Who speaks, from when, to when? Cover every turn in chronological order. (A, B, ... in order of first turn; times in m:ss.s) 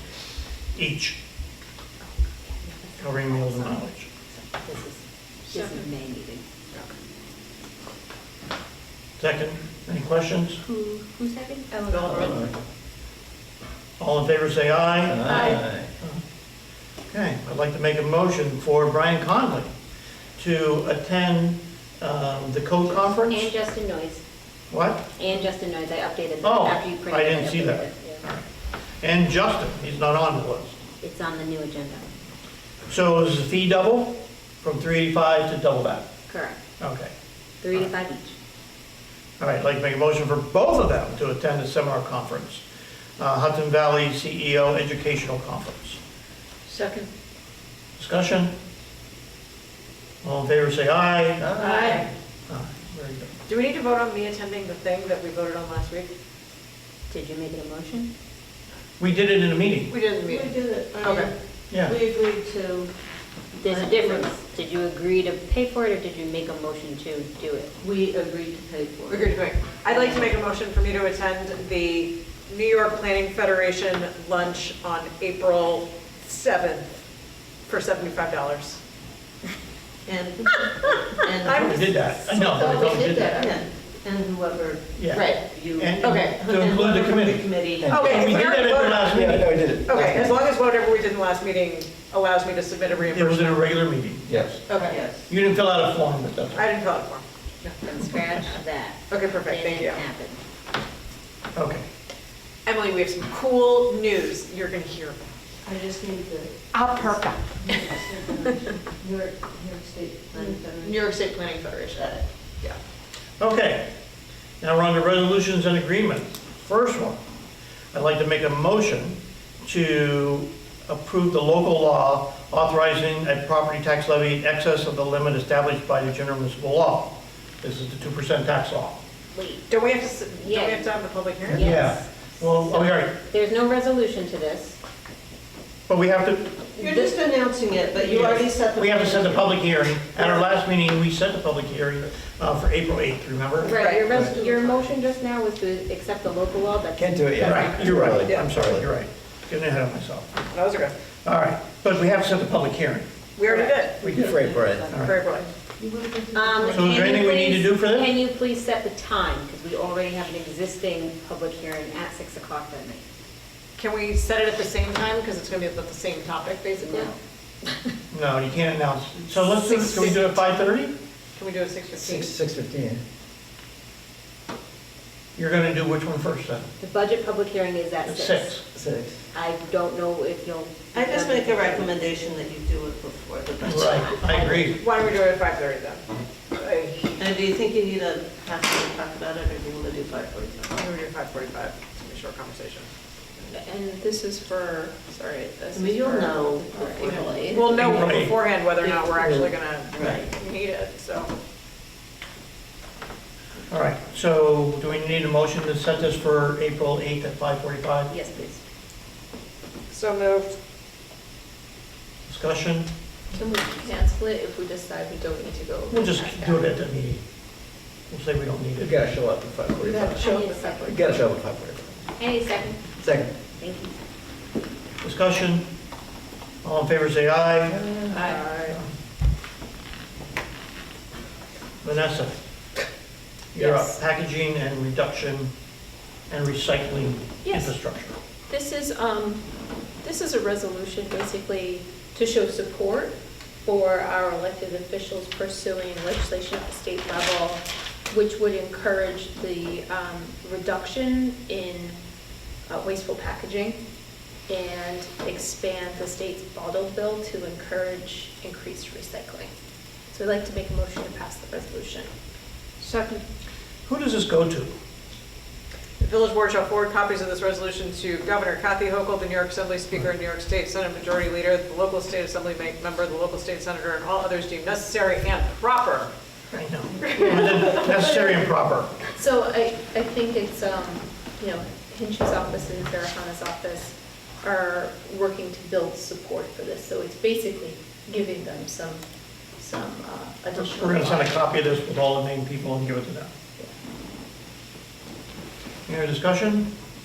0:00.7-0:01.2 A
0:02.4-0:06.4 B
0:03.0-0:04.1 A
0:05.5-0:05.8 C
0:09.2-0:10.6 A
0:10.6-0:11.7 B
0:11.7-0:12.4 C
0:11.9-0:12.3 D
0:12.0-0:12.5 E
0:14.0-0:16.2 A
0:15.1-0:15.9 E
0:15.3-0:15.6 C
0:17.1-0:19.7 A
0:20.4-0:23.5 A
0:23.1-0:24.2 B
0:24.7-0:25.1 A
0:25.2-0:28.2 B
0:26.4-0:30.8 A
0:31.0-0:32.0 B
0:32.9-0:36.1 A
0:36.3-0:36.6 B
0:36.8-0:37.1 A
0:37.6-0:38.3 B
0:39.4-0:42.6 A
0:43.2-0:46.0 A
0:46.7-0:47.1 C
0:48.0-0:48.6 A
0:50.2-0:51.5 A
0:51.4-0:51.9 E
0:51.6-0:52.1 D
0:51.6-0:52.0 C
0:52.5-0:53.3 A
0:53.5-0:56.1 D
0:57.1-0:58.1 B
0:59.0-0:59.9 A
0:59.9-1:01.3 D
1:00.2-1:01.3 F
1:01.7-1:01.9 A
1:01.9-1:02.9 F
1:03.6-1:07.7 B
1:03.6-1:04.4 F
1:07.8-1:09.3 F
1:09.1-1:17.0 D
1:09.9-1:10.2 B
1:17.7-1:18.8 D
1:20.0-1:22.0 F
1:21.4-1:22.2 D
1:21.5-1:23.4 A
1:22.2-1:23.7 C
1:23.3-1:28.1 F
1:25.0-1:27.5 A
1:25.1-1:25.4 C
1:26.0-1:26.4 D
1:27.8-1:30.4 E
1:27.8-1:29.2 D
1:28.0-1:29.6 A
1:29.8-1:33.7 D
1:33.1-1:34.6 A
1:34.3-1:34.6 E
1:34.7-1:35.0 D
1:34.8-1:35.3 F
1:35.3-1:36.7 A
1:36.5-1:37.7 D
1:37.7-1:40.4 B
1:39.1-1:40.0 D
1:41.5-1:41.9 A
1:42.6-1:45.2 D
1:45.6-1:46.5 F
1:46.7-1:47.8 D
1:47.7-1:48.4 F
1:49.0-1:51.1 F
1:50.8-1:52.2 C
1:53.4-1:53.9 A
1:54.6-1:57.2 A
1:57.9-2:09.0 A
2:09.3-2:09.7 B
2:09.7-2:11.8 D
2:10.4-2:10.9 B
2:11.5-2:14.8 B
2:11.5-2:13.2 A
2:15.9-2:16.6 A
2:16.8-2:19.6 F
2:18.2-2:23.8 A
2:23.6-2:27.8 B
2:23.7-2:24.1 D
2:24.1-2:24.9 F
2:27.0-2:28.9 E
2:27.4-2:30.4 A
2:28.2-2:28.5 D
2:30.5-2:30.9 D
2:31.2-2:33.1 A
2:33.4-2:34.0 D
2:33.5-2:35.1 B
2:34.0-2:34.4 A
2:34.0-2:34.9 E
2:34.9-2:35.2 A
2:34.9-2:35.5 D
2:36.3-2:43.0 B
2:36.7-2:38.1 A
2:43.8-2:47.1 D
2:46.8-2:47.1 B
2:48.1-2:50.9 A
2:49.4-2:50.2 C
2:51.4-2:52.3 D
2:52.0-2:53.0 E
2:55.4-2:56.7 A
2:56.8-2:58.6 B
2:58.1-2:58.6 A
2:58.7-2:59.2 E
2:59.3-3:01.9 B
3:00.9-3:04.6 F
3:03.6-3:04.8 A
3:03.9-3:04.6 B
3:04.7-3:07.2 D
3:07.2-3:10.7 F
3:10.7-3:12.9 D
3:13.5-3:17.7 C
3:15.7-3:18.2 F
3:17.4-3:21.3 D
3:17.8-3:18.4 A
3:19.0-3:19.5 E
3:19.9-3:20.3 F
3:23.7-3:28.1 A
3:28.1-3:28.6 B
3:29.9-3:30.5 D
3:32.2-3:32.9 A
3:33.3-3:36.8 C
3:35.9-3:37.2 A
3:38.1-3:39.0 A
3:38.8-3:42.0 E
3:39.8-3:41.1 C
3:40.2-3:41.0 B
3:42.2-3:42.9 B
3:43.0-3:43.3 E
3:43.6-3:44.0 B
3:45.0-3:45.7 A
3:46.6-3:47.8 A
3:47.7-3:48.3 E
3:48.1-3:48.6 D
3:48.3-3:48.7 C
3:51.8-3:52.4 A
3:53.5-3:55.5 A
3:53.6-3:54.0 C
3:56.3-3:58.2 A
3:57.4-3:57.7 C
3:58.5-3:59.4 C
4:00.0-4:12.0 C
4:12.7-4:13.8 C
4:14.5-4:19.5 C
4:20.1-4:22.1 C
4:22.8-4:23.2 C
4:23.8-4:24.7 A
4:26.0-4:36.1 D
4:36.5-4:38.3 C
4:36.5-4:38.9 A
4:39.1-4:49.0 C
4:49.6-4:51.4 C
4:50.6-4:53.3 A
4:55.9-4:56.7 A